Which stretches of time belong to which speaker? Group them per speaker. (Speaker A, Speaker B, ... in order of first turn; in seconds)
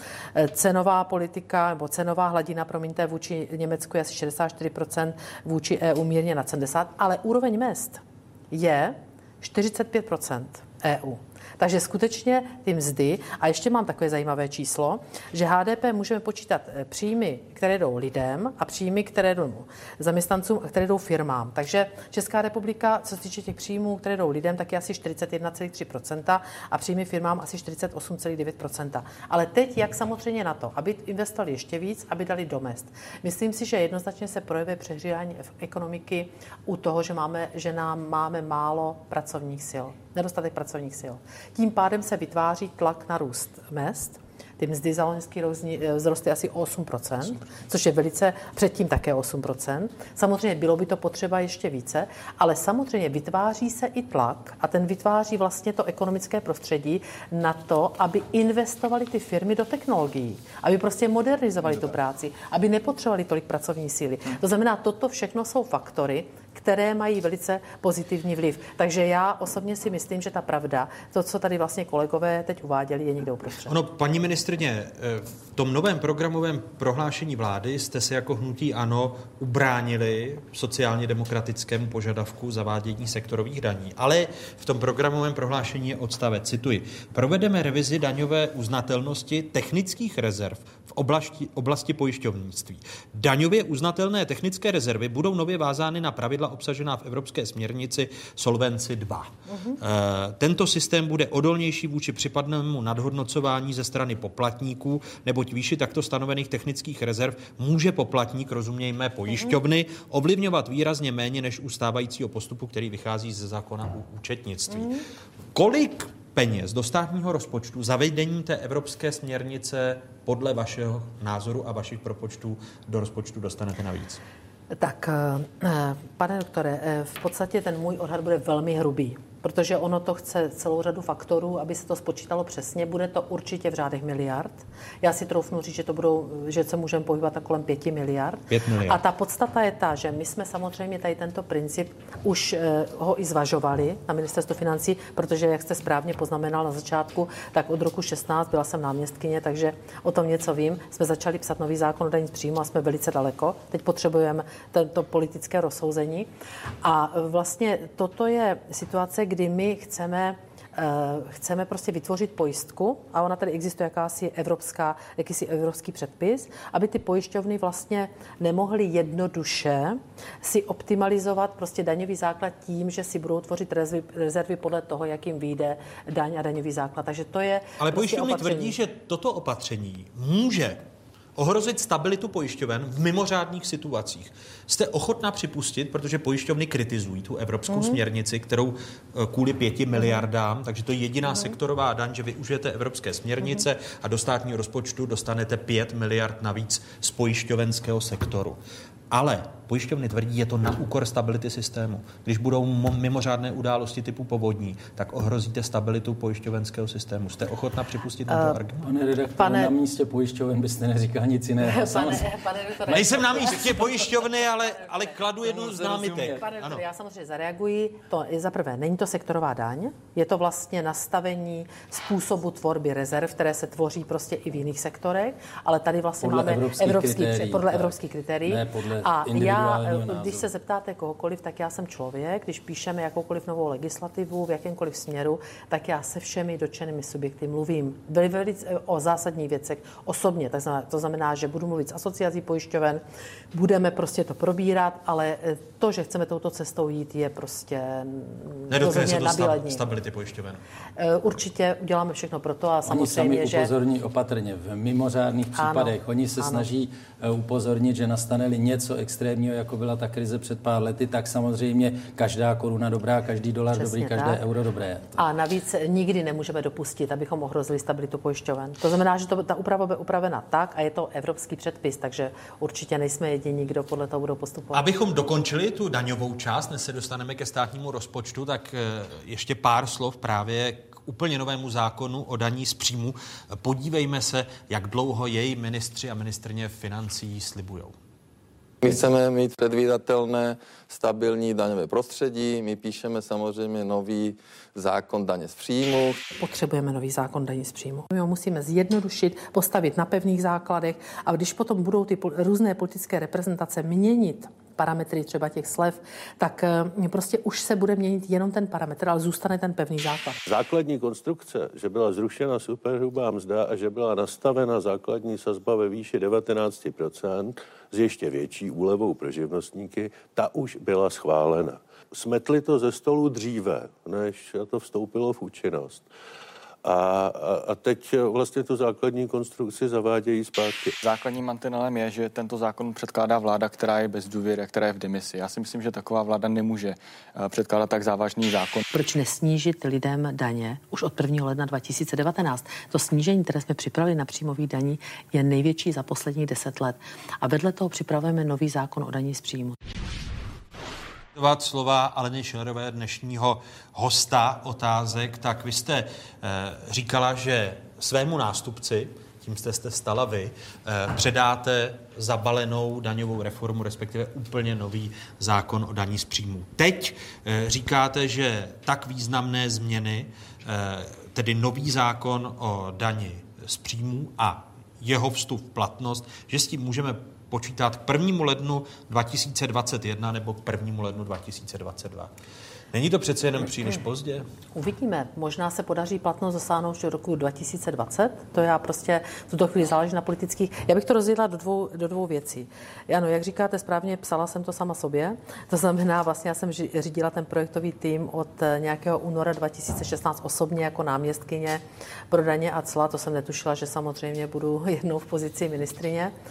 Speaker A: 0.3-73.8, 99.5-99.8, 109.3-109.6, 114.8-115.0, 124.8-156.3, 156.8-178.8, 187.7-188.0, 208.3-208.6, 209.4-209.7, 211.6-214.1, 216.4-243.0, 243.5-249.9, 251.0-253.7, 255.6-256.7, 263.7-264.4, 265.2-274.9, 296.4-310.4, 338.9-349.8, 384.8-406.3
Speaker B: 73.7-115.0, 115.5-124.2, 138.5-139.0, 177.8-180.8, 181.4-198.6, 199.1-208.9, 212.9-216.8, 248.7-250.6, 274.7-287.9, 351.4-382.3, 382.9-384.5
Speaker C: 208.8-212.3, 212.9-213.7, 215.4-216.4, 226.2-230.5, 252.8-265.2
Speaker D: 288.8-296.2
Speaker E: 310.5-326.1, 326.8-331.0
Speaker F: 331.0-338.9